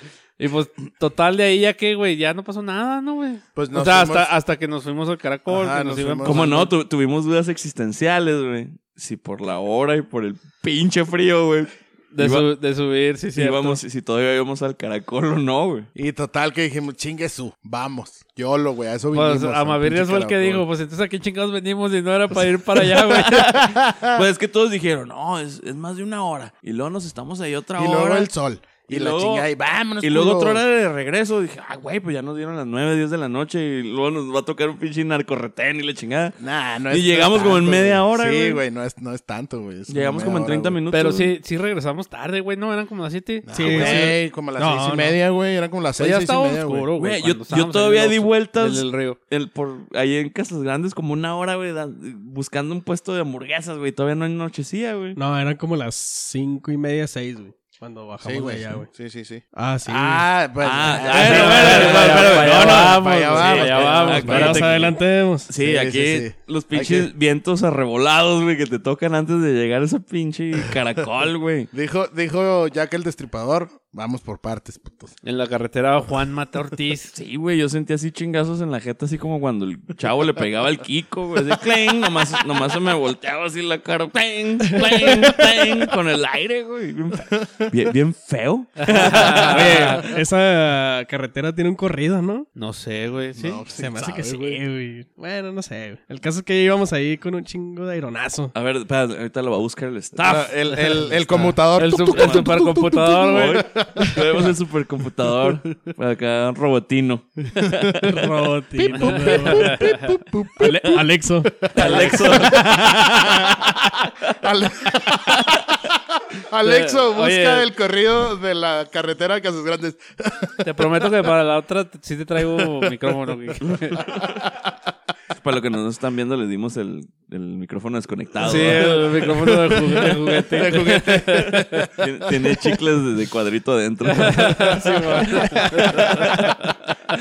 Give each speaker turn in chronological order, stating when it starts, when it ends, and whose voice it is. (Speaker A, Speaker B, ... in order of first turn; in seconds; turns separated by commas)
Speaker A: 0.4-6.6, Speaker B: 3.5-4.3, Speaker B: 5.5-6.7, Speaker C: 6.2-12.5, Speaker A: 12.1-13.8, Speaker C: 13.3-15.9, Speaker B: 15.9-20.6, Speaker A: 19.1-23.5, Speaker C: 22.8-28.3, Speaker B: 23.4-24.2, Speaker B: 27.8-30.6, Speaker C: 28.9-29.5, Speaker C: 30.0-36.4, Speaker B: 36.4-40.8, Speaker C: 36.9-38.6, Speaker C: 39.9-41.3, Speaker A: 40.9-44.1, Speaker B: 43.4-46.9, Speaker D: 43.5-45.1, Speaker A: 46.0-49.2, Speaker C: 47.0-55.2, Speaker D: 55.1-58.9, Speaker B: 58.2-64.7, Speaker D: 59.5-60.2, Speaker C: 60.6-71.7, Speaker A: 61.1-64.6, Speaker D: 61.4-62.2, Speaker D: 64.2-65.5, Speaker B: 65.6-67.1, Speaker B: 71.7-75.1, Speaker A: 75.2-77.1, Speaker C: 77.1-90.0, Speaker B: 87.3-87.6, Speaker A: 88.8-90.0, Speaker D: 89.4-92.5, Speaker A: 92.6-93.6, Speaker B: 93.3-94.6, Speaker D: 93.8-98.5, Speaker C: 98.5-101.1, Speaker B: 100.2-104.5, Speaker A: 101.8-103.6, Speaker C: 102.1-102.5, Speaker C: 103.3-108.3, Speaker B: 107.6-108.0, Speaker D: 108.0-110.0, Speaker B: 108.8-110.9, Speaker A: 108.9-110.0, Speaker D: 110.6-112.0, Speaker C: 110.6-111.0, Speaker B: 111.6-121.1, Speaker C: 111.7-114.1, Speaker A: 111.8-112.4, Speaker A: 116.6-117.7, Speaker A: 120.6-124.0, Speaker B: 122.6-122.9, Speaker C: 123.6-124.4, Speaker B: 124.1-124.7, Speaker C: 125.3-129.3, Speaker A: 128.4-131.9, Speaker B: 128.5-132.8, Speaker C: 132.0-136.8, Speaker A: 134.1-136.4, Speaker B: 134.6-136.6